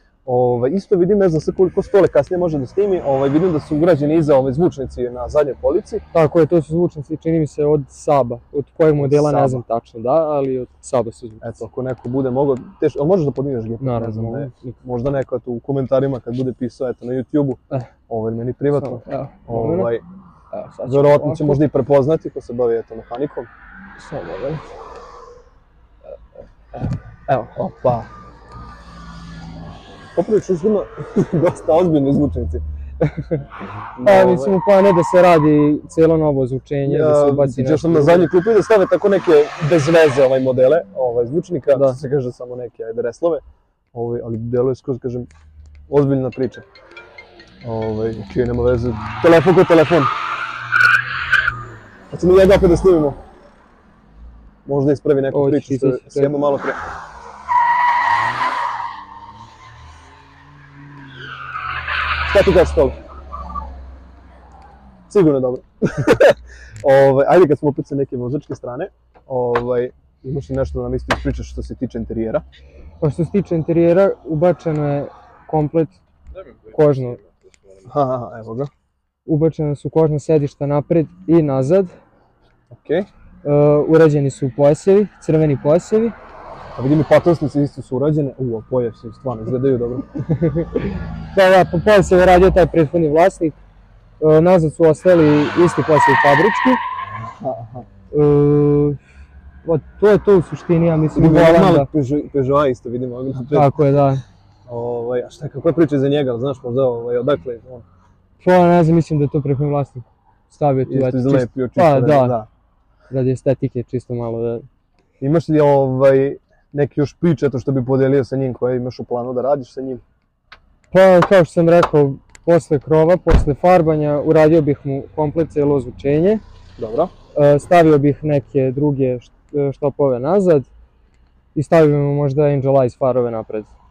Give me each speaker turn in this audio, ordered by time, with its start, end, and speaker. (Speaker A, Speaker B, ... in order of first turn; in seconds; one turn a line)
Speaker A: 0.2-6.0
Speaker B: 6.1-11.6
Speaker A: 9.0-9.6
Speaker A: 11.4-20.1
Speaker B: 13.8-14.7
Speaker B: 18.7-19.9
Speaker B: 20.5-21.6
Speaker A: 20.9-23.5
Speaker B: 24.0-24.7
Speaker A: 27.3-28.1
Speaker A: 30.1-32.6
Speaker A: 33.9-34.6
Speaker B: 34.0-38.3
Speaker A: 36.9-43.4
Speaker B: 41.7-42.0
Speaker A: 43.9-45.3
Speaker A: 45.9-46.6
Speaker A: 47.6-50.1
Speaker A: 52.1-53.2
Speaker A: 54.6-56.8
Speaker B: 55.3-56.4
Speaker A: 62.3-63.0
Speaker A: 65.1-72.4
Speaker B: 73.0-76.0
Speaker B: 76.7-77.2
Speaker A: 77.9-78.7
Speaker B: 79.2-81.9
Speaker A: 82.7-83.1
Speaker B: 83.4-86.2
Speaker A: 86.8-90.1
Speaker B: 90.2-93.6
Speaker B: 94.2-96.8
Speaker A: 97.4-97.9
Speaker B: 98.1-99.0
Speaker B: 99.6-101.9
Speaker A: 101.1-103.8
Speaker B: 103.5-104.2
Speaker A: 104.7-107.8
Speaker B: 108.4-112.4
Speaker A: 110.8-112.5
Speaker B: 113.1-114.7
Speaker A: 115.2-120.0
Speaker B: 120.9-126.4
Speaker A: 126.8-127.1
Speaker B: 127.3-130.7
Speaker B: 131.5-133.7